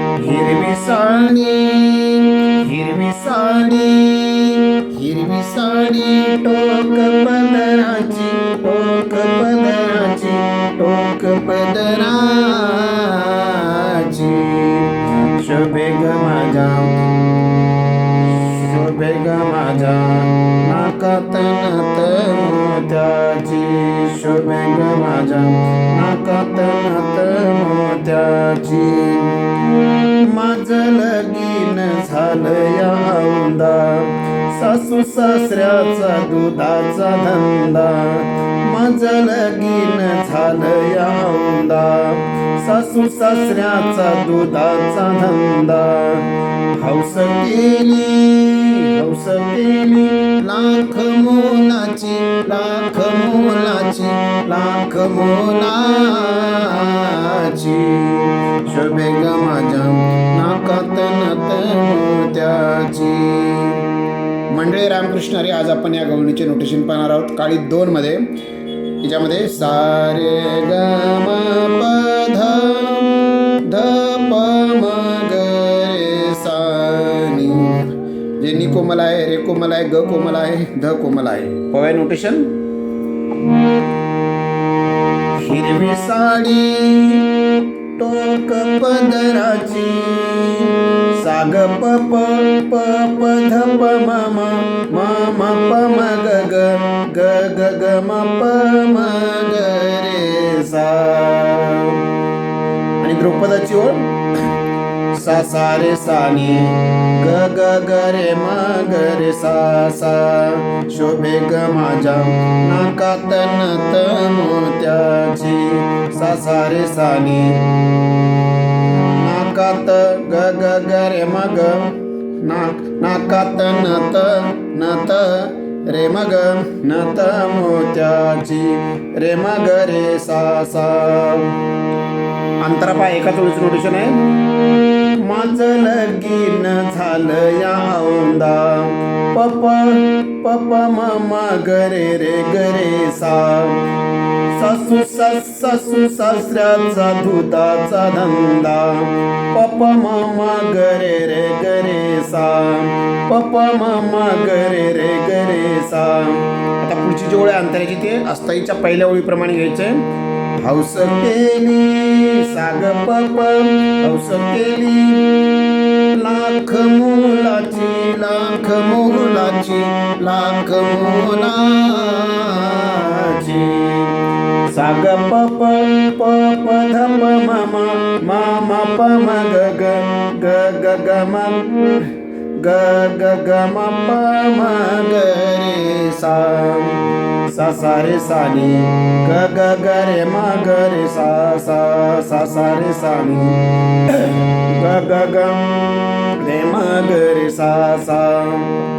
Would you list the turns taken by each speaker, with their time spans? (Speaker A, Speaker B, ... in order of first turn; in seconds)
Speaker A: 0.2-16.9, 18.4-29.4, 30.2-46.3, 46.8-63.8, 64.5-68.2, 69.0-82.5, 85.4-87.3, 88.0-102.0, 103.0-104.1, 105.1-117.6, 119.1-131.5, 132.6-134.2, 135.2-143.8, 144.5-160.0, 160.6-165.2, 166.1-174.2, 174.7-193.6, 194.1-195.6, 196.4-198.7